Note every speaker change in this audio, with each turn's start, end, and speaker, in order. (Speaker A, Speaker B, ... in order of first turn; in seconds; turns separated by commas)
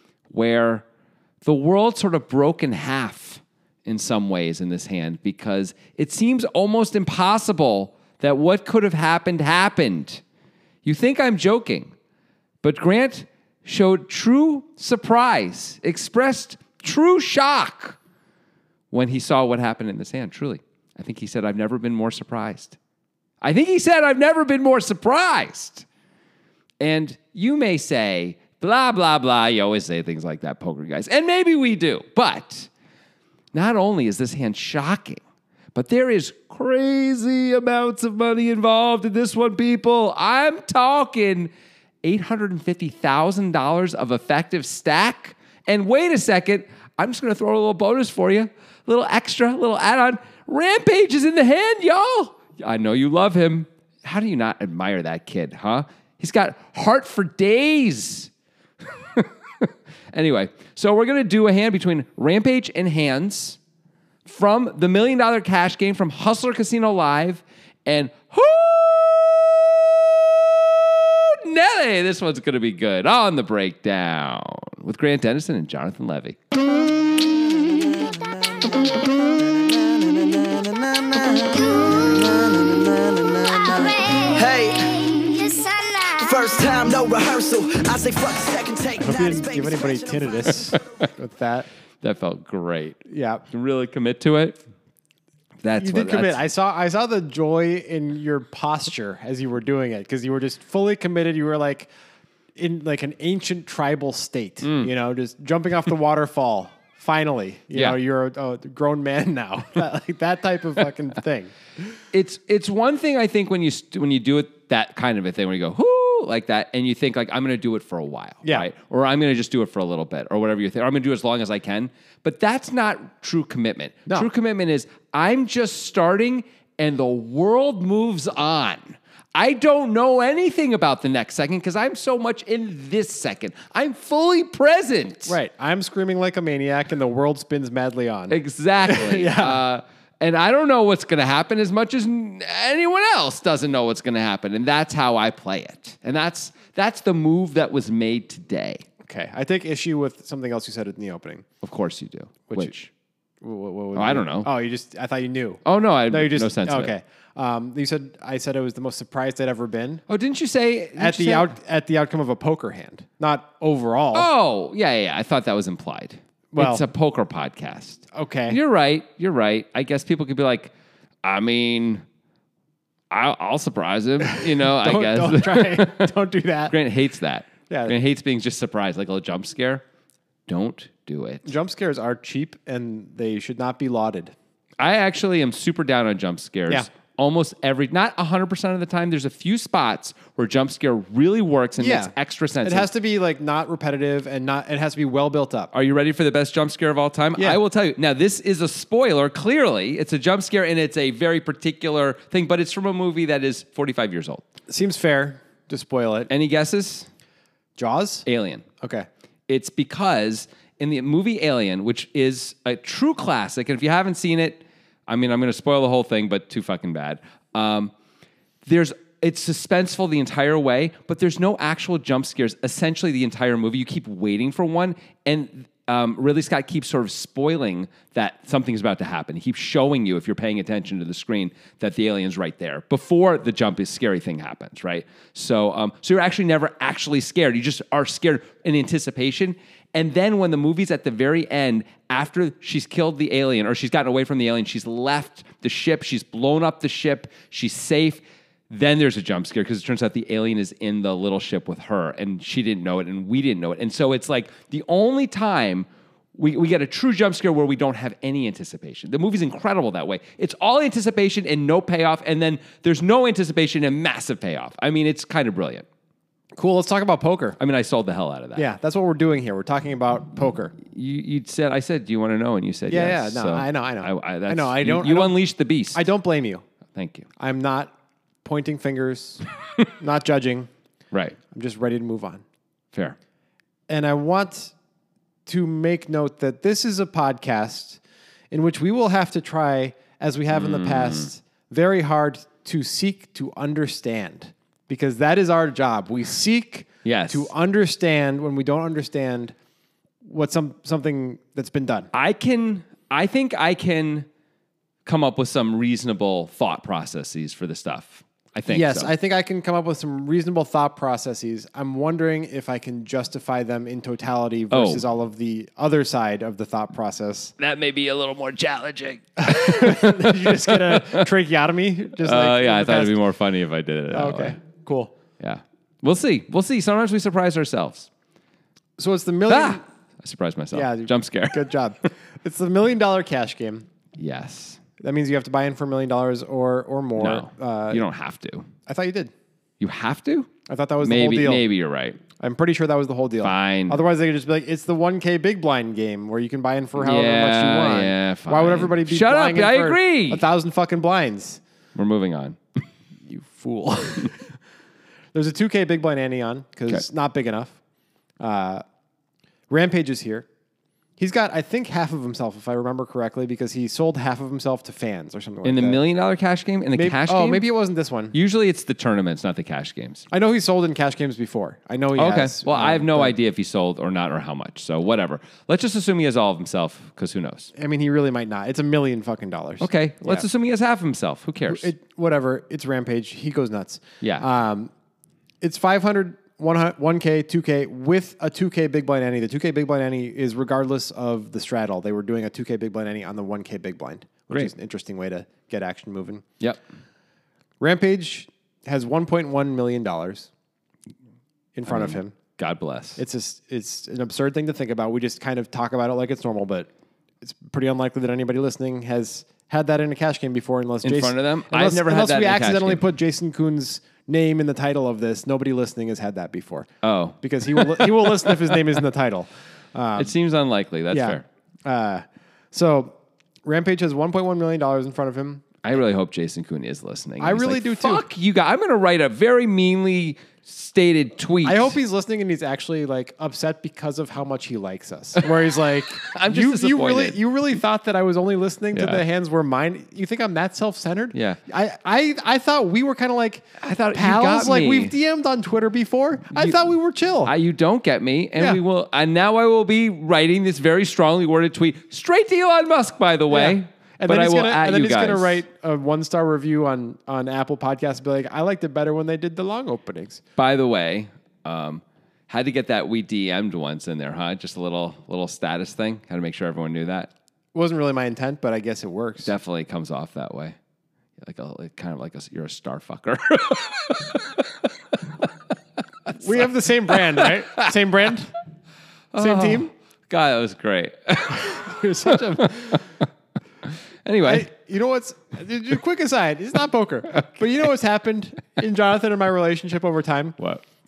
Speaker A: 0.3-0.8, Speaker A: 1.4-10.2, Speaker A: 10.8-11.9, Speaker A: 12.6-18.0, Speaker A: 18.9-22.8, Speaker A: 23.4-25.9, Speaker A: 26.8-32.7, Speaker A: 33.5-35.2, Speaker A: 35.7-41.5, Speaker A: 42.0-58.3, Speaker A: 59.0-63.6, Speaker A: 64.2-76.4, Speaker B: 76.9-91.0, Speaker C: 89.0-91.7, Speaker A: 92.0-94.6, Speaker C: 93.1-93.4, Speaker A: 95.6-96.4, Speaker C: 95.8-101.9, Speaker C: 102.6-111.5, Speaker A: 104.6-104.9, Speaker A: 112.1-135.4, Speaker C: 135.3-139.6, Speaker A: 138.3-148.8, Speaker C: 149.0-151.5, Speaker A: 151.6-152.9, Speaker C: 152.5-152.7, Speaker C: 153.4-160.0, Speaker A: 153.9-154.5, Speaker A: 155.7-156.9, Speaker A: 160.1-161.5, Speaker C: 161.0-164.3, Speaker A: 164.1-170.7, Speaker C: 166.5-166.8, Speaker C: 168.1-168.6, Speaker A: 171.2-172.0, Speaker A: 173.1-176.1, Speaker C: 174.3-176.7, Speaker A: 176.7-179.8, Speaker C: 177.7-177.9, Speaker A: 180.5-181.5, Speaker C: 181.5-184.3, Speaker A: 184.8-192.9, Speaker C: 191.8-195.7, Speaker A: 195.7-204.5, Speaker C: 204.7-206.3, Speaker A: 206.3-207.1, Speaker C: 207.8-208.2, Speaker A: 208.3-208.7, Speaker C: 208.8-209.1, Speaker A: 209.5-217.9, Speaker A: 218.7-265.9, Speaker C: 266.6-267.6, Speaker A: 267.6-268.7, Speaker C: 268.6-270.8, Speaker A: 270.9-276.0, Speaker C: 272.9-275.4, Speaker C: 275.9-276.6, Speaker A: 276.9-277.3, Speaker C: 277.4-280.7, Speaker A: 281.1-281.4, Speaker C: 281.5-282.4, Speaker C: 283.9-284.7, Speaker C: 285.5-288.0, Speaker C: 288.5-299.6, Speaker A: 290.5-291.3, Speaker A: 297.1-297.5, Speaker C: 300.2-302.1, Speaker A: 302.1-304.3, Speaker A: 305.1-309.1, Speaker C: 308.7-317.5, Speaker A: 314.7-315.0, Speaker A: 317.6-321.3, Speaker C: 319.4-323.2, Speaker A: 322.2-324.6, Speaker C: 324.1-325.1, Speaker A: 325.4-328.1, Speaker C: 329.0-329.8, Speaker A: 329.5-331.7, Speaker C: 330.7-333.9, Speaker A: 334.2-334.8, Speaker C: 335.0-338.0, Speaker A: 337.2-338.7, Speaker C: 338.9-339.3, Speaker A: 339.8-342.2, Speaker C: 340.7-341.7, Speaker C: 342.3-351.6, Speaker A: 343.4-344.0, Speaker A: 347.0-350.4, Speaker A: 352.0-352.8, Speaker C: 353.3-354.5, Speaker C: 355.3-357.8, Speaker C: 358.4-358.8, Speaker C: 359.7-360.5, Speaker C: 361.2-366.0, Speaker A: 365.6-367.6, Speaker C: 366.9-368.4, Speaker A: 368.3-370.2, Speaker C: 370.3-373.4, Speaker A: 372.2-377.7, Speaker C: 377.8-380.5, Speaker A: 379.8-381.9, Speaker C: 381.7-384.9, Speaker A: 384.2-384.5, Speaker C: 385.6-396.4, Speaker C: 397.8-400.5, Speaker C: 401.8-402.4, Speaker A: 401.9-403.2, Speaker C: 403.2-406.9, Speaker C: 407.4-420.3, Speaker A: 411.0-413.0, Speaker A: 417.0-418.5, Speaker A: 420.2-421.4, Speaker C: 421.1-425.6, Speaker A: 425.8-432.0, Speaker C: 427.4-428.2, Speaker C: 431.6-447.5, Speaker A: 435.4-437.4, Speaker A: 438.9-439.2, Speaker A: 441.3-441.6, Speaker A: 443.8-445.1, Speaker A: 446.5-446.8, Speaker A: 447.4-455.6, Speaker C: 453.5-460.4, Speaker A: 460.6-467.3, Speaker C: 467.7-469.5, Speaker A: 469.4-470.8, Speaker A: 471.4-475.5, Speaker A: 476.3-477.9, Speaker C: 476.4-478.5, Speaker A: 479.3-483.0, Speaker C: 479.4-479.9, Speaker C: 481.5-483.0, Speaker A: 484.2-484.7, Speaker C: 484.4-490.6